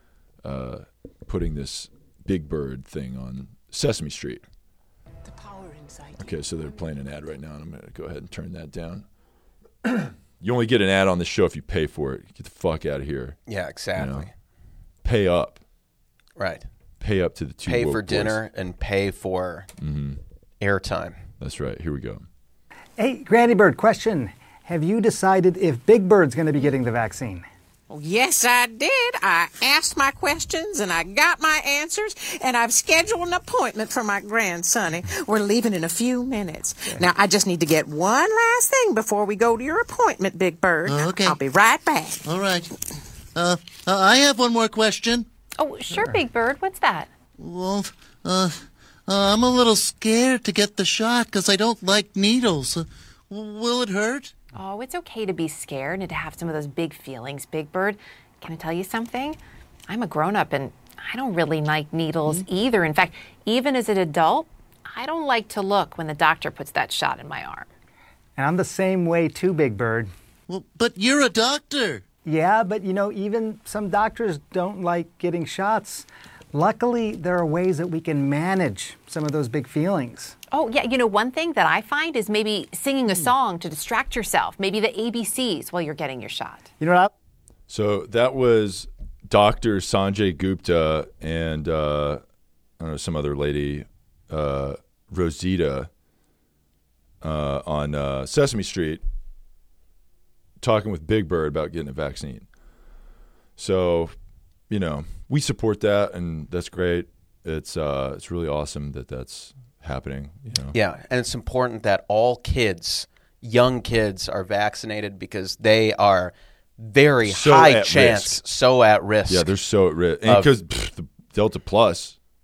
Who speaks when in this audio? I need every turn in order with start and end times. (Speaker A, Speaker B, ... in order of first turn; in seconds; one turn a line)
Speaker A: 0.4-4.4
Speaker A: 6.1-9.0
Speaker A: 9.8-13.4
Speaker B: 13.5-14.3
Speaker A: 13.9-14.3
Speaker A: 15.0-15.6
Speaker B: 16.4-16.6
Speaker A: 17.0-18.4
Speaker B: 17.6-19.7
Speaker A: 19.8-20.2
Speaker B: 20.6-21.2
Speaker A: 21.4-22.2
Speaker C: 23.0-27.4
Speaker D: 27.9-42.2
Speaker E: 40.9-41.4
Speaker E: 42.2-42.7
Speaker E: 43.3-45.3
Speaker F: 45.6-47.1
Speaker E: 47.4-54.3
Speaker F: 54.5-67.7
Speaker C: 68.4-70.1
Speaker E: 70.5-72.0
Speaker C: 72.2-80.3
Speaker F: 80.5-86.7
Speaker C: 86.8-87.1
Speaker A: 87.7-92.2
Speaker A: 92.8-95.9
Speaker A: 97.2-99.0
Speaker A: 100.6-102.5
Speaker A: 103.6-104.1
Speaker A: 104.7-110.8
Speaker B: 110.7-119.5
Speaker A: 117.2-118.4
Speaker A: 119.3-122.2